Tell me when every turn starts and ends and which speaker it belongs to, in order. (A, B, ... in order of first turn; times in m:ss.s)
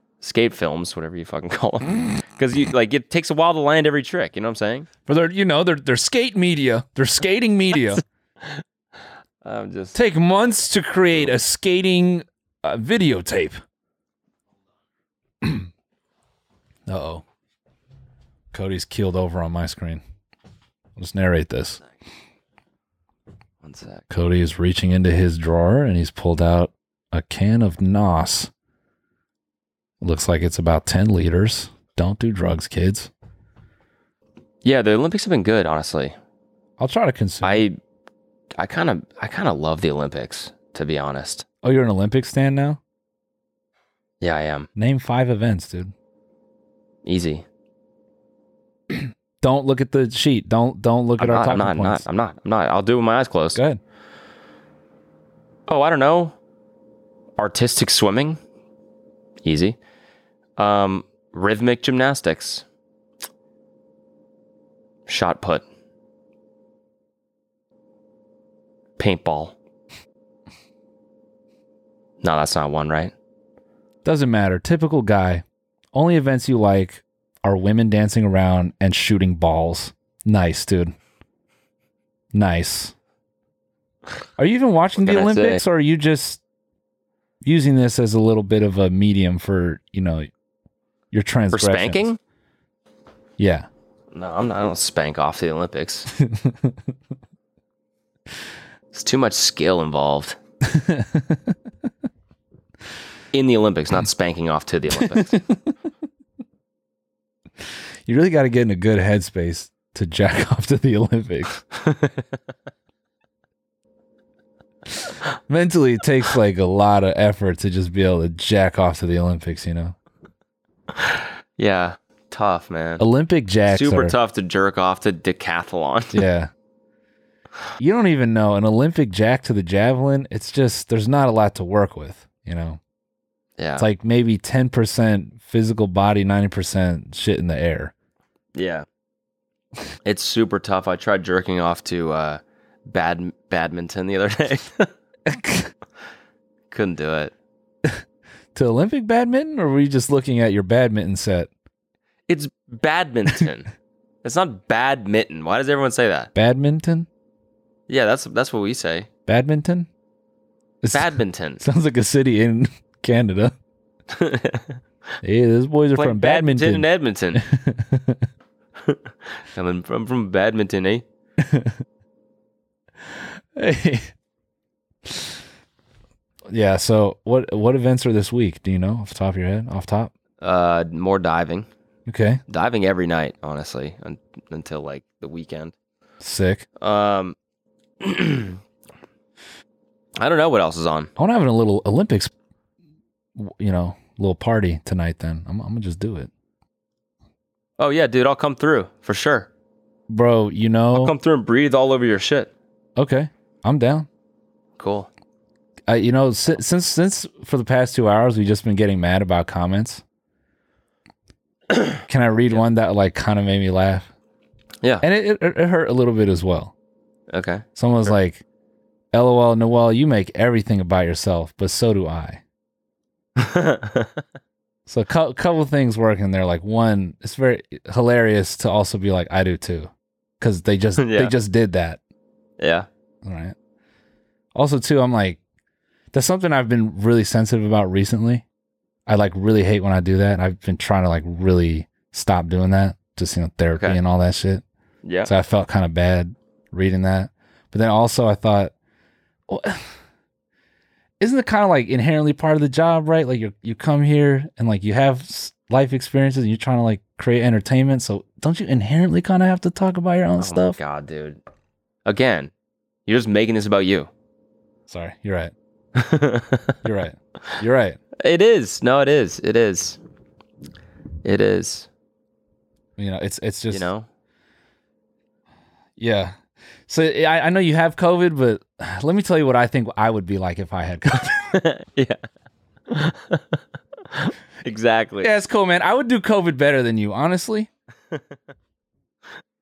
0:00.2-0:04.9 A
0:05.1-0:08.0 B
0:09.4-0:10.0 A
0:09.9-0:13.6 B
0:15.4-0:15.7 B
0:16.9-0:17.2 B
0:18.5-0:20.0 B
0:21.0-0:21.8 B
0:23.6-0:24.0 A
0:24.1-0:28.5 B
0:30.0-0:33.1 B
0:34.6-0:36.2 A
0:36.8-0:37.6 B
0:37.4-0:37.8 A
0:38.6-0:41.5 A
0:41.6-0:42.8 B
0:44.2-0:44.7 A
0:44.8-0:45.9 B
0:47.0-0:47.5 A
0:48.9-0:52.0 B
0:51.2-0:53.6 A
0:53.5-0:53.8 B
0:55.7-0:56.4 A
0:57.4-0:58.4 A
0:59.4-0:59.8 A
1:00.6-1:02.6 A
1:05.1-1:05.6 A
1:09.0-1:09.6 A
1:12.2-1:13.1 A
1:14.0-1:20.9 B
1:22.3-1:22.9 B
1:24.4-1:26.4 B
1:25.0-1:25.6 A
1:27.4-1:30.3 B
1:31.1-1:32.1 B
1:31.5-1:32.2 A
1:33.4-1:33.7 B
1:34.1-1:36.1 A
1:36.2-1:36.8 B
1:38.9-1:40.4 A
1:40.7-1:41.6 B
1:43.3-1:45.4 A
1:45.0-1:45.6 B
1:48.1-1:51.6 B
1:51.8-1:52.1 A
1:55.5-2:00.0 B
2:00.9-2:03.0 A
2:03.0-2:04.2 B
2:03.7-2:06.2 A
2:06.1-2:06.5 B
2:07.8-2:12.8 B
2:13.6-2:13.9 A
2:13.8-2:17.9 B
2:18.6-2:18.9 A
2:20.0-2:24.9 A
2:25.3-2:25.7 B
2:26.7-2:27.3 A
2:28.6-2:31.5 B
2:32.3-2:33.7 A
2:34.2-2:36.3 A
2:36.4-2:37.1 B
2:37.9-2:39.1 A
2:39.3-2:39.9 B
2:40.8-2:43.6 B
2:40.9-2:41.6 A
2:44.1-2:44.8 A
2:45.2-2:48.3 B
2:45.9-2:47.4 A
2:49.5-2:51.0 A
2:51.4-2:51.8 B
2:53.1-2:54.1 B
2:55.1-2:55.4 B
2:56.5-3:00.1 B
3:00.4-3:01.7 A
3:02.1-3:02.4 B
3:02.5-3:05.8 A
3:06.2-3:06.7 B
3:06.8-3:07.4 A
3:08.0-3:08.6 A
3:10.2-3:11.1 A
3:11.2-3:12.3 B
3:13.4-3:16.3 B
3:17.8-3:19.5 A
3:20.1-3:21.2 B
3:21.0-3:22.5 A
3:23.0-3:24.1 B
3:24.8-3:25.1 A
3:25.9-3:30.0 B
3:32.1-3:34.1 B
3:35.0-3:36.7 B
3:37.3-3:37.6 A
3:37.8-3:38.4 B
3:39.1-3:42.4 B
3:43.4-3:44.2 A
3:44.9-3:52.0 B
3:51.0-3:51.3 A
3:52.6-3:52.9 A
3:53.2-3:53.6 B
3:54.6-3:55.4 B
3:56.1-3:58.4 B
3:59.1-4:04.6 B
4:05.0-4:05.3 A
4:05.3-4:08.7 B
4:09.5-4:09.9 B
4:11.2-4:20.8 B
4:20.4-4:21.4 A
4:22.1-4:22.5 A
4:23.1-4:24.1 A
4:24.9-4:25.5 B
4:26.0-4:26.8 A
4:26.8-4:28.0 B
4:28.2-4:30.0 A
4:31.2-4:31.9 A
4:33.0-4:33.9 B
4:33.7-4:34.1 A
4:36.0-4:36.4 B
4:36.9-4:41.5 B
4:41.3-4:42.2 A
4:42.9-4:43.6 A
4:44.1-4:45.3 A
4:45.2-4:47.7 B